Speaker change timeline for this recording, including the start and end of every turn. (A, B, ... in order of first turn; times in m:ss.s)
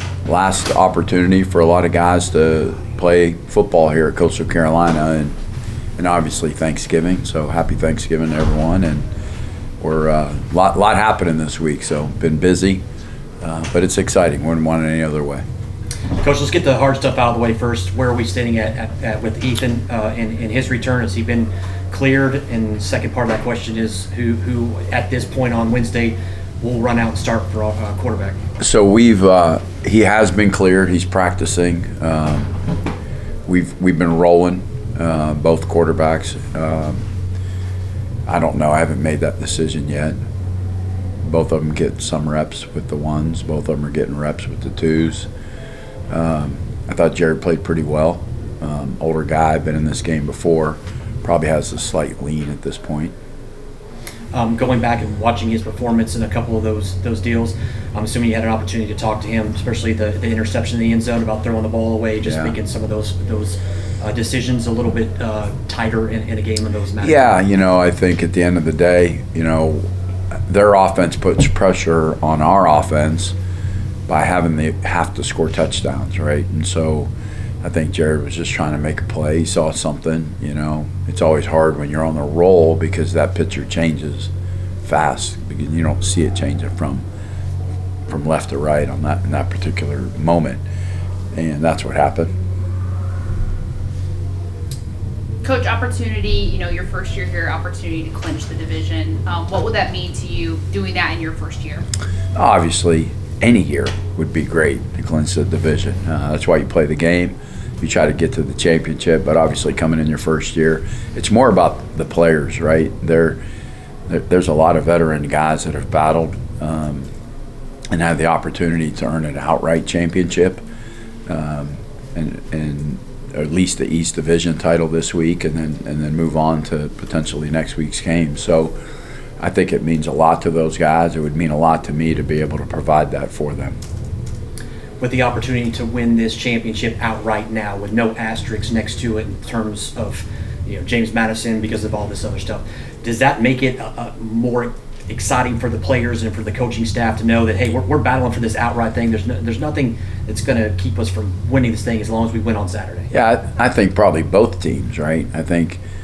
0:00.2-0:05.4 A
0:06.0-0:09.1 A
0:09.8-0:12.8 A
0:13.4-0:15.4 A
0:16.2-0:28.4 B
0:28.6-0:32.6 A
0:33.4-0:37.0 A
0:38.3-0:40.2 A
0:41.2-0:45.3 A
0:46.1-0:53.1 A
0:54.3-1:07.4 B
1:02.2-1:02.6 A
1:07.0-1:09.9 A
1:10.5-1:13.3 A
1:14.1-1:17.1 A
1:17.6-1:24.3 A
1:24.8-1:27.1 A
1:28.1-1:30.6 A
1:31.3-1:32.3 A
1:35.4-1:41.8 C
1:42.3-1:53.4 A
1:54.1-1:57.1 A
1:57.9-2:00.6 A
2:01.3-2:08.7 A
2:09.4-2:13.8 A
2:15.0-2:33.1 B
2:33.1-2:35.8 A